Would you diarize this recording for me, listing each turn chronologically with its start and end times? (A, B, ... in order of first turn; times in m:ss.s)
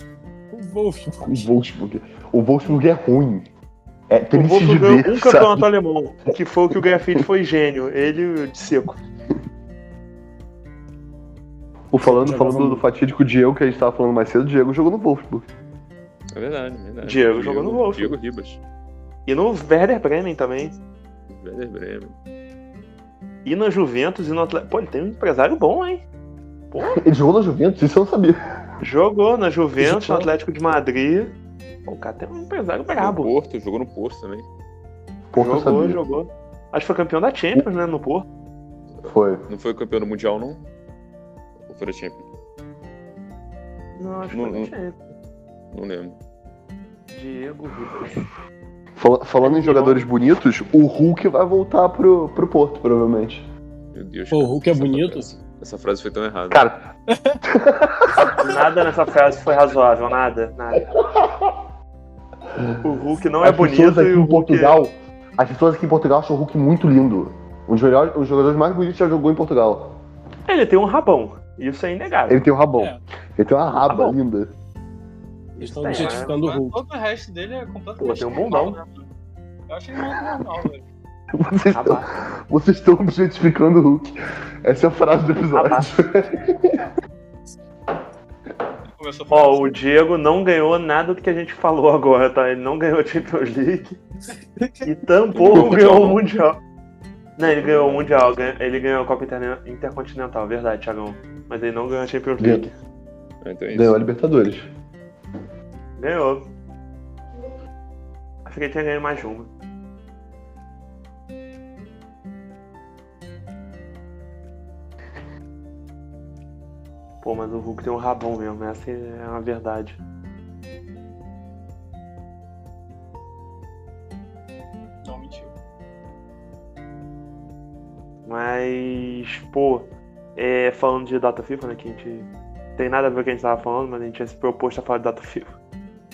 0:00.5-0:01.5 A
0:01.2-0:03.5 B
0:04.1-0:05.7 B
0:04.3-0:09.0 C
0:06.7-0:07.2 B
0:11.9-0:15.5 B
0:12.0-0:12.8 A
0:16.3-0:18.6 D
0:17.0-0:18.2 C
0:19.3-0:20.7 C
0:21.3-0:22.2 D
0:23.4-0:26.0 C
0:26.7-0:27.0 C
0:27.0-0:28.4 B
0:28.8-0:31.3 C
0:29.8-0:30.3 B
0:31.8-0:33.3 C
0:33.0-0:34.4 D
0:35.3-0:36.0 B
0:35.4-0:38.2 C
0:39.0-0:39.4 B
0:39.5-0:40.7 D
0:41.7-0:42.2 D
0:44.0-0:45.0 C
0:44.3-0:44.7 D
0:45.7-0:46.2 D
0:47.1-0:48.2 C
0:49.0-0:53.5 B
0:49.4-0:50.0 C
0:53.9-0:56.6 D
0:54.3-0:55.3 A
0:56.5-0:56.9 B
0:57.1-0:57.4 A
0:57.5-0:58.4 B
0:58.3-1:00.9 C
1:01.1-1:01.5 B
1:02.8-1:04.8 C
1:03.4-1:10.0 B
1:10.5-1:12.4 C
1:12.3-1:14.5 B
1:15.5-1:16.3 C
1:15.6-1:16.8 A
1:15.8-1:19.1 E
1:18.0-1:18.8 C
1:19.7-1:20.8 E
1:21.3-1:24.1 B
1:21.7-1:22.1 C
1:24.6-1:26.8 B
1:25.5-1:25.9 C
1:28.9-1:29.8 E
1:29.3-1:34.0 C
1:34.8-1:36.6 C
1:35.3-1:36.2 D
1:37.4-1:42.7 C
1:37.4-1:38.5 D
1:42.4-1:42.7 B
1:43.4-1:44.0 D
1:43.7-1:44.7 B
1:46.0-1:46.5 C
1:48.4-1:49.5 C
1:57.2-2:00.0 C
2:05.0-2:05.5 E
2:08.2-2:15.5 C